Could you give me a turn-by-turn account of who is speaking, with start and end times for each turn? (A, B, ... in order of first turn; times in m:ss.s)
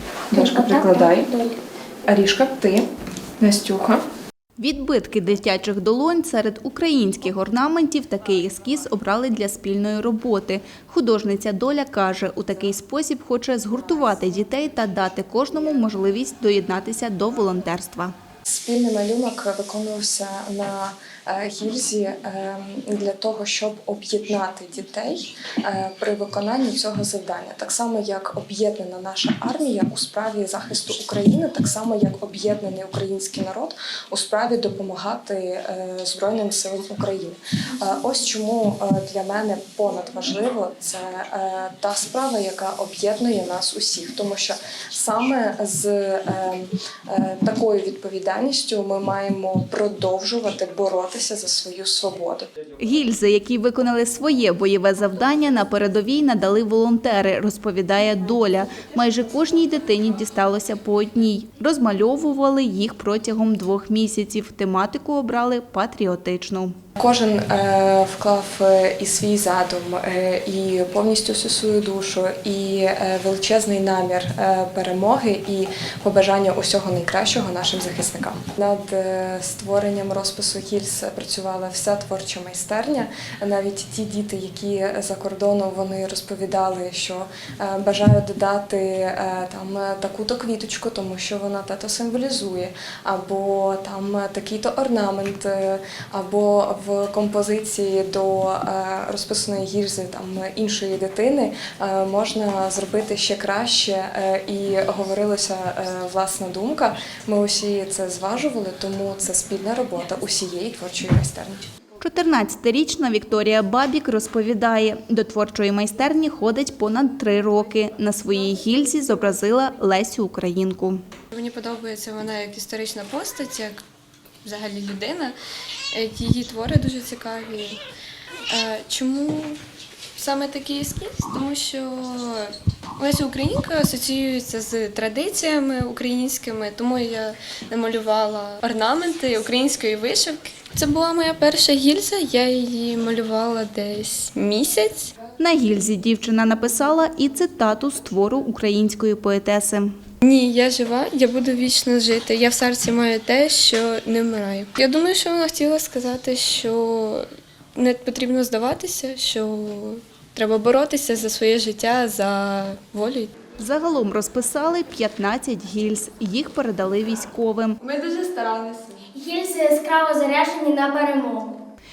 0:00.3-0:01.6 A
0:02.1-0:02.8 A
0:03.4-0:04.0 A
0:04.6-0:18.1 B
0:18.5-0:52.5 A
0:52.8-1:06.8 B
1:07.0-1:51.6 A
1:52.0-2:01.0 B
2:01.3-2:03.8 C
2:04.4-2:05.4 C
2:05.9-2:07.8 C
2:08.5-2:09.6 C
2:10.2-2:25.1 C
2:25.4-2:30.0 B
2:30.2-2:43.3 C
2:43.6-2:47.8 B
2:47.8-2:49.1 C
2:49.1-2:51.6 D